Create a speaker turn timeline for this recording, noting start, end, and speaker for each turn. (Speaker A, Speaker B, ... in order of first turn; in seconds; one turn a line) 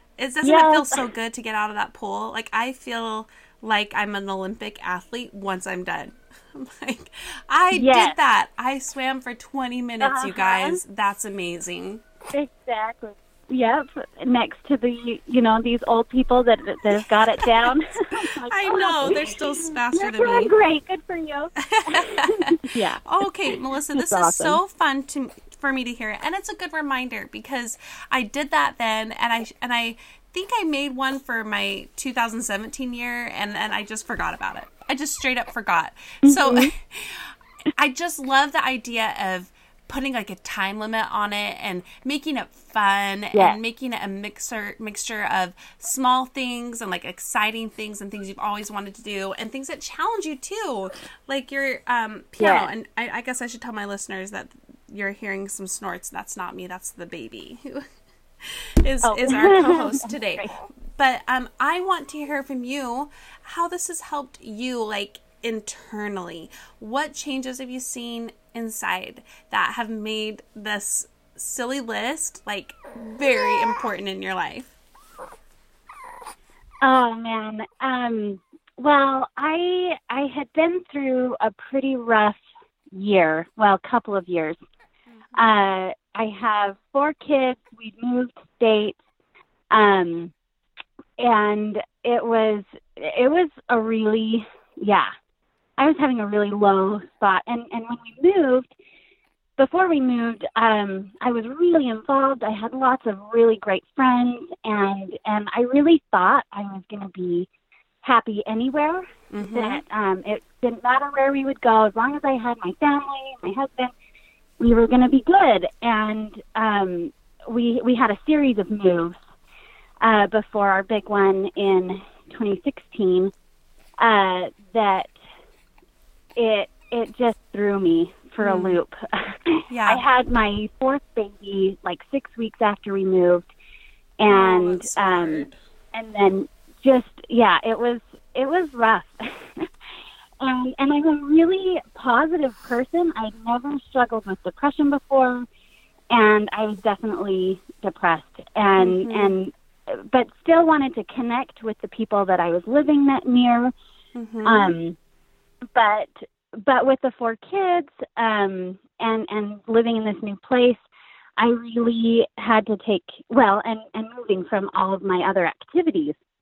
Speaker A: 0.2-12.0
Speaker B: 0.4-1.1
Speaker B: 7.7-8.2
Speaker B: 10.0-10.8
Speaker B: 12.3-23.0
Speaker A: 17.4-17.8
Speaker A: 18.4-20.5
Speaker A: 21.6-37.2
Speaker B: 23.9-24.6
Speaker B: 36.2-36.7
Speaker A: 37.8-57.8
Speaker B: 43.3-43.6
Speaker B: 52.4-52.7
Speaker A: 58.8-60.4
Speaker B: 59.0-60.5
Speaker A: 61.0-74.7
Speaker B: 76.8-82.4
Speaker B: 82.9-84.6
Speaker B: 85.3-89.0
Speaker B: 89.7-90.3
Speaker B: 91.2-95.1
Speaker B: 95.8-98.7
Speaker B: 99.6-107.5
Speaker B: 108.0-113.9
Speaker A: 109.5-109.8
Speaker B: 114.6-119.2
Speaker B: 120.0-123.3
Speaker B: 124.0-125.1
Speaker B: 126.3-133.5
Speaker B: 134.2-139.7
Speaker A: 134.3-135.5
Speaker B: 140.4-145.4
Speaker B: 146.1-153.7
Speaker A: 148.8-149.4
Speaker A: 154.1-154.7
Speaker B: 154.4-155.0
Speaker B: 155.7-160.8
Speaker B: 161.4-166.1